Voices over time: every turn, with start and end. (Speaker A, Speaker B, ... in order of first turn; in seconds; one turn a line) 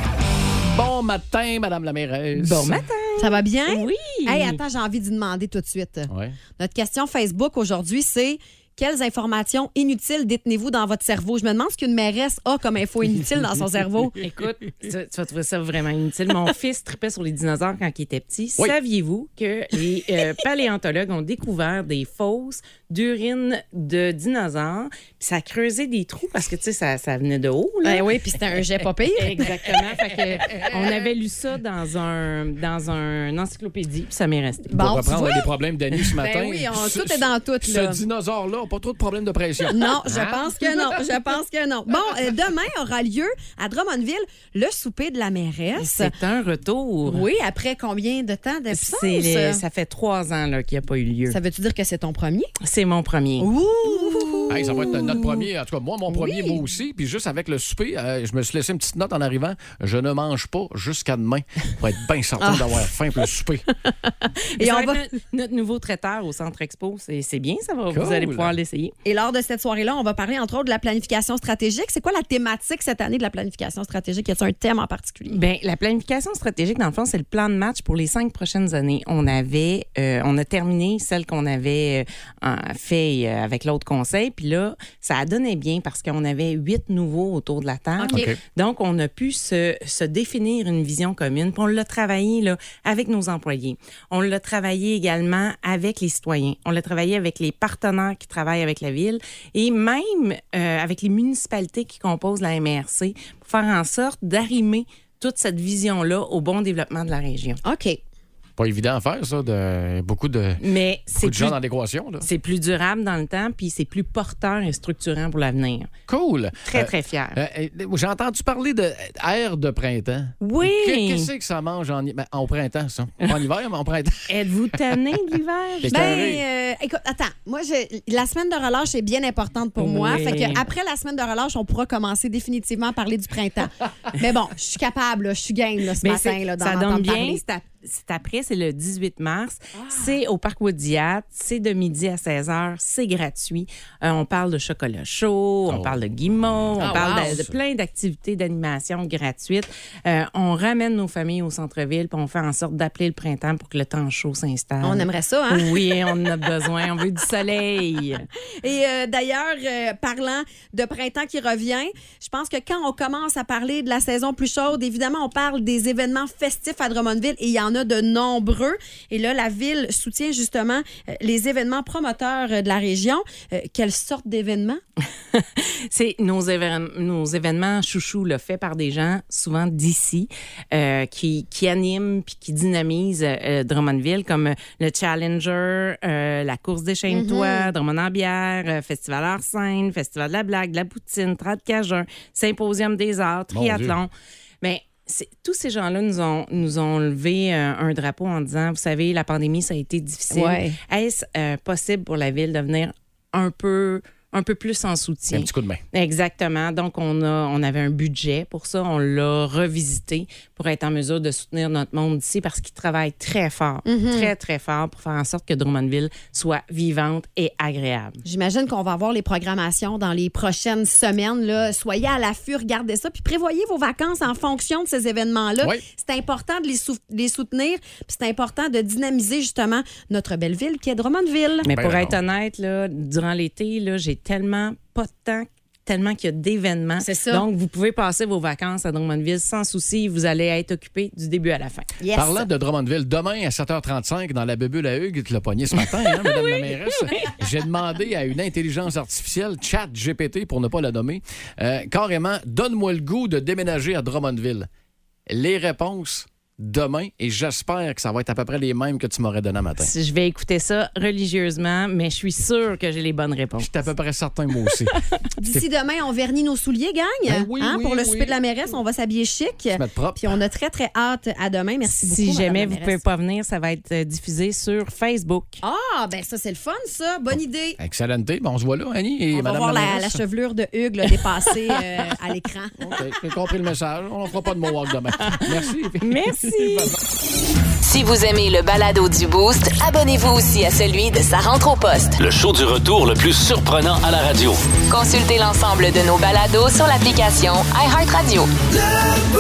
Speaker A: 0.7-2.8
Speaker B: 2.4-4.6
Speaker C: 3.2-14.2
Speaker A: 6.1-6.4
Speaker B: 14.2-28.1
Speaker C: 27.8-29.6
Speaker B: 29.1-34.7
Speaker C: 34.7-35.5
Speaker A: 34.7-40.9
Speaker C: 36.1-38.0
Speaker C: 39.7-46.1
Speaker B: 45.8-47.3
Speaker C: 47.1-49.6
Speaker B: 48.7-51.4
Speaker C: 51.3-52.5
Speaker B: 52.6-53.5
Speaker C: 53.4-55.5
Speaker A: 54.5-63.6
Speaker C: 56.1-56.6
Speaker C: 62.4-62.7
Speaker C: 63.7-65.0
Speaker B: 64.6-68.9
Speaker A: 67.9-68.5
Speaker C: 69.0-75.4
Speaker B: 75.3-107.6
Speaker C: 88.0-88.3
Speaker A: 88.1-88.4
Speaker C: 107.6-108.0
Speaker A: 108.6-110.6
Speaker B: 110.6-111.6
Speaker A: 111.1-112.2
Speaker B: 112.2-115.9
Speaker A: 116.1-124.3
Speaker B: 116.6-117.4
Speaker B: 120.4-121.3
Speaker B: 124.3-126.3
Speaker A: 125.8-126.4
Speaker C: 125.9-137.4
Speaker B: 129.8-130.7
Speaker B: 136.0-158.2
Speaker A: 145.7-146.0
Speaker A: 146.7-147.5
Speaker C: 146.9-147.2
Speaker C: 154.8-156.1
Speaker C: 158.6-174.8
Speaker B: 175.3-194.1
Speaker C: 187.1-187.7
Speaker A: 193.5-194.0
Speaker B: 194.6-218.2
Speaker C: 200.3-200.8
Speaker A: 205.3-205.8
Speaker C: 213.8-214.3
Speaker C: 218.2-231.7
Speaker A: 231.6-232.2
Speaker B: 231.7-241.9
Speaker C: 237.0-237.4
Speaker C: 242.0-242.5
Speaker A: 242.1-254.7
Speaker B: 245.8-247.3
Speaker A: 255.3-259.9
Speaker B: 259.8-263.9
Speaker A: 263.6-265.0
Speaker C: 265.4-273.0
Speaker A: 267.2-268.4
Speaker A: 269.7-270.3
Speaker B: 271.8-275.6
Speaker C: 275.6-277.8
Speaker A: 277.8-280.2
Speaker C: 279.3-282.7
Speaker A: 282.8-286.9
Speaker B: 285.2-286.9
Speaker D: 287.8-292.2
Speaker E: 292.2-294.7
Speaker D: 294.9-298.5